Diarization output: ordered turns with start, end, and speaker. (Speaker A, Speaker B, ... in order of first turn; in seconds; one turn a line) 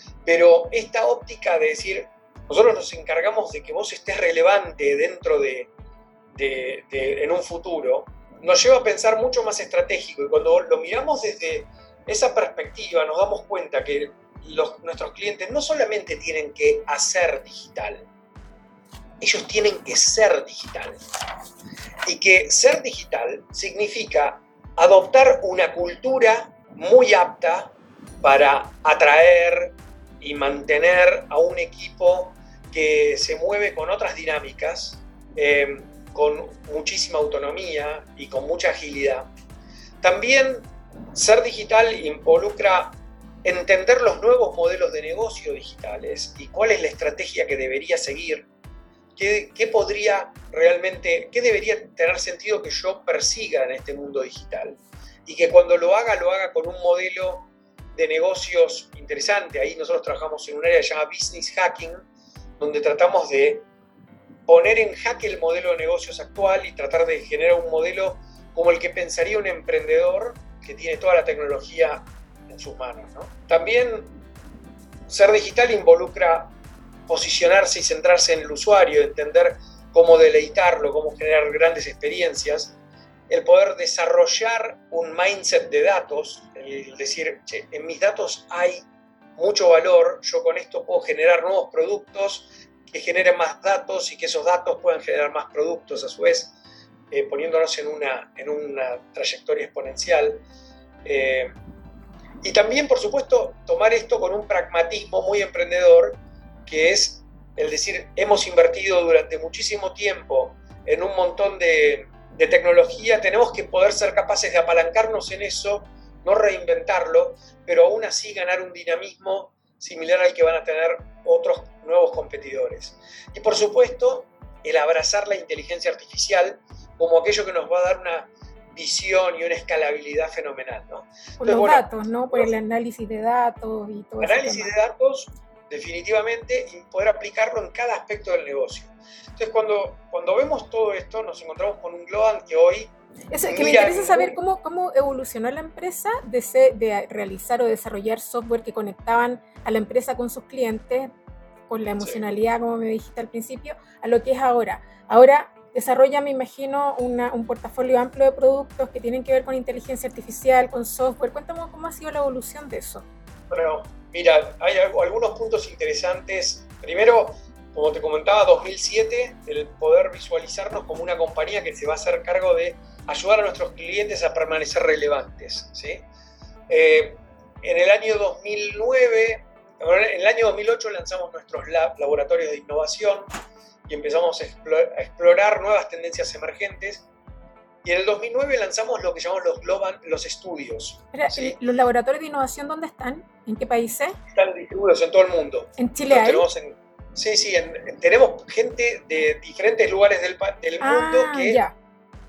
Speaker A: 0.2-5.7
Speaker A: 6.3-18.1
Speaker A: 19.2-21.0
Speaker A: 22.0-39.3
Speaker A: 40.0-48.5
Speaker A: 49.1-62.0
Speaker A: 62.6-63.6
Speaker A: 64.5-74.2
Speaker A: 75.1-76.5
Speaker A: 77.1-82.7
Speaker A: 83.3-96.5
Speaker A: 97.1-100.4
Speaker A: 101.0-101.5
Speaker A: 102.4-132.5
Speaker B: 131.4-134.7
Speaker A: 134.2-142.9
Speaker B: 143.3-151.1
Speaker A: 143.4-144.4
Speaker B: 151.7-163.1
Speaker A: 163.5-176.0
Speaker A: 176.7-183.3
Speaker A: 183.9-187.1
Speaker A: 187.8-191.6
Speaker B: 191.1-194.2
Speaker A: 194.3-201.6
Speaker B: 195.8-196.5
Speaker B: 200.8-201.7